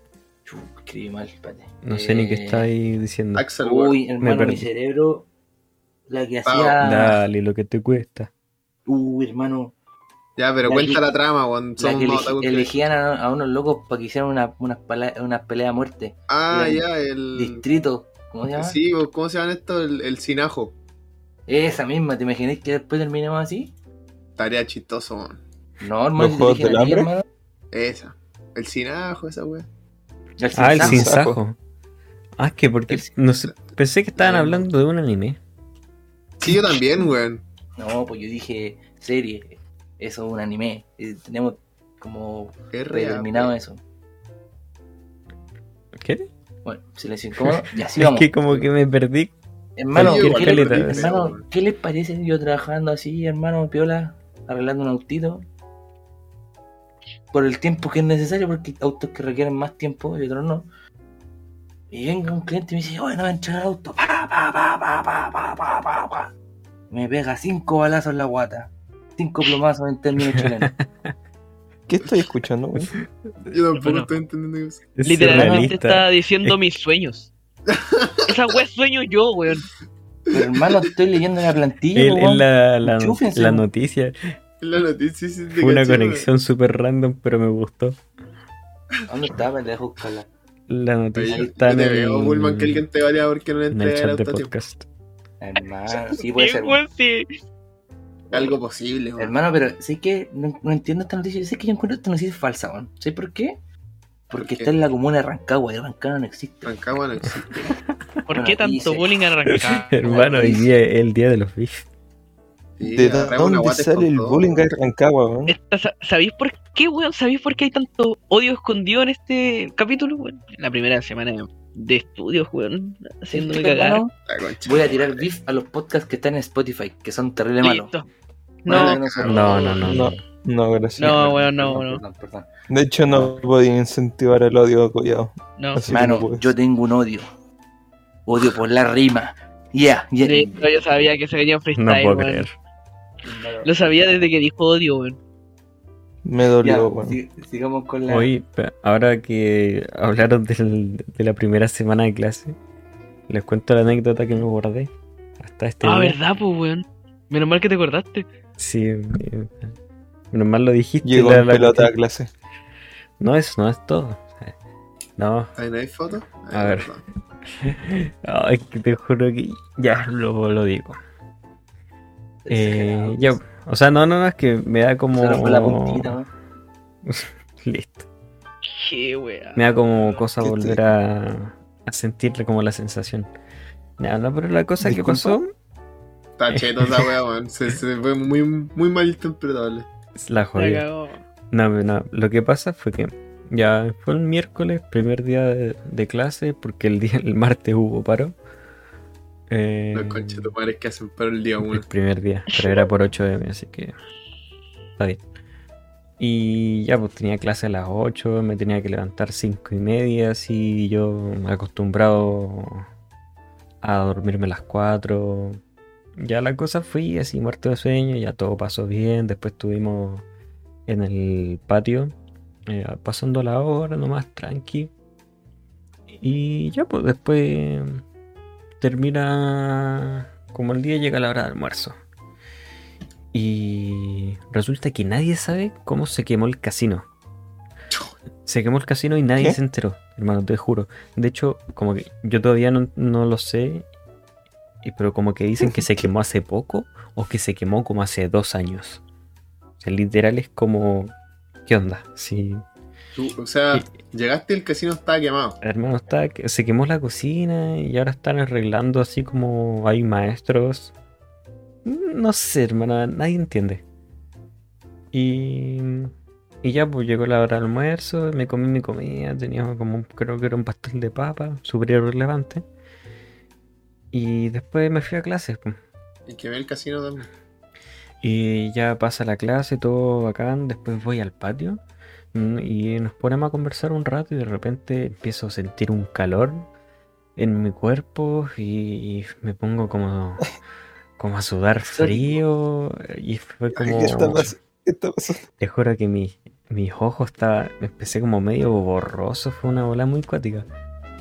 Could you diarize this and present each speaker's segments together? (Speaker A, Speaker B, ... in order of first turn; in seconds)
Speaker A: 0.5-2.7, 3.6-5.3, 6.1-7.2, 8.9-9.7, 10.6-11.0, 11.8-18.8, 21.5-23.7, 25.8-27.2, 30.4-31.1, 34.2-34.7, 37.8-43.8, 46.6-48.7, 49.8-55.4, 57.3-60.7, 61.9-66.3, 66.9-70.7, 75.2-75.7, 80.3-83.6, 89.1-90.3, 95.4-96.8, 99.2-103.6, 104.3-106.8, 108.3-109.1, 110.0-110.7, 123.3-127.9, 128.7-129.7, 131.0-132.5, 133.1-133.4, 135.9-137.3, 138.2-140.6, 143.2-143.8, 146.6-148.3, 172.4-173.4, 175.1-176.3, 291.9-292.4
Speaker B: 1.8-3.5, 4.2-4.7, 6.8-8.3, 30.5-31.6, 32.4-35.4, 46.0-46.2, 47.4-49.3, 49.9-51.1, 70.3-71.1, 75.0-76.6, 81.9-84.2, 85.5-88.0, 90.7-92.8, 93.7-94.8, 109.5-111.8, 129.2-130.2, 141.7-142.5, 148.1-152.6, 153.3-156.2, 158.6-159.7, 160.3-161.9, 163.2-164.5, 165.2-165.5, 166.5-166.9, 167.6-171.0, 172.5-176.2, 177.0-178.1, 179.5-183.3, 184.0-185.5, 186.5-187.1, 190.2-190.8, 191.5-198.3, 199.5-200.5, 201.6-203.9, 206.2-212.8, 213.8-215.6, 216.2-220.2, 220.9-222.1, 222.7-224.9, 226.1-228.0, 228.8-232.0, 233.3-237.1, 238.4-243.8, 244.8-249.0, 249.8-251.1, 251.7-252.6, 255.6-260.9, 261.8-263.8, 265.1-272.6, 274.1-275.8, 278.2-281.8, 282.3-286.7, 287.4-290.5, 291.2-294.5, 295.6-300.7
Speaker C: 3.3-4.0, 6.5-6.8, 10.4-12.8, 16.3-17.6, 18.6-20.7, 24.4-25.4, 27.7-29.6, 36.4-37.4, 42.7-43.5, 49.9-51.4, 73.5-74.9, 77.7-78.2, 80.3-80.6, 84.6-86.3, 91.1-94.5, 98.3-99.3, 104.4-104.7, 106.6-107.7, 112.8-114.5, 124.3-125.2, 128.7-130.0, 165.6-167.0, 186.4-189.9, 199.9-201.8, 253.1-255.6, 276.3-277.3
Speaker D: 26.2-27.1, 30.8-31.4, 71.9-73.0, 112.8-115.5, 129.8-131.4, 132.7-136.5, 146.2-147.2, 161.0-162.3, 180.4-180.8, 184.8-185.4, 245.6-246.0, 293.8-295.4
Speaker E: 73.7-74.1, 75.0-77.3, 78.3-79.7, 96.2-97.3, 108.3-109.9, 115.5-124.0, 127.6-128.1, 128.6-129.0, 131.0-132.0, 135.6-135.8, 140.2-142.4, 143.6-145.2, 155.8-158.2, 178.7-179.7, 190.6-191.2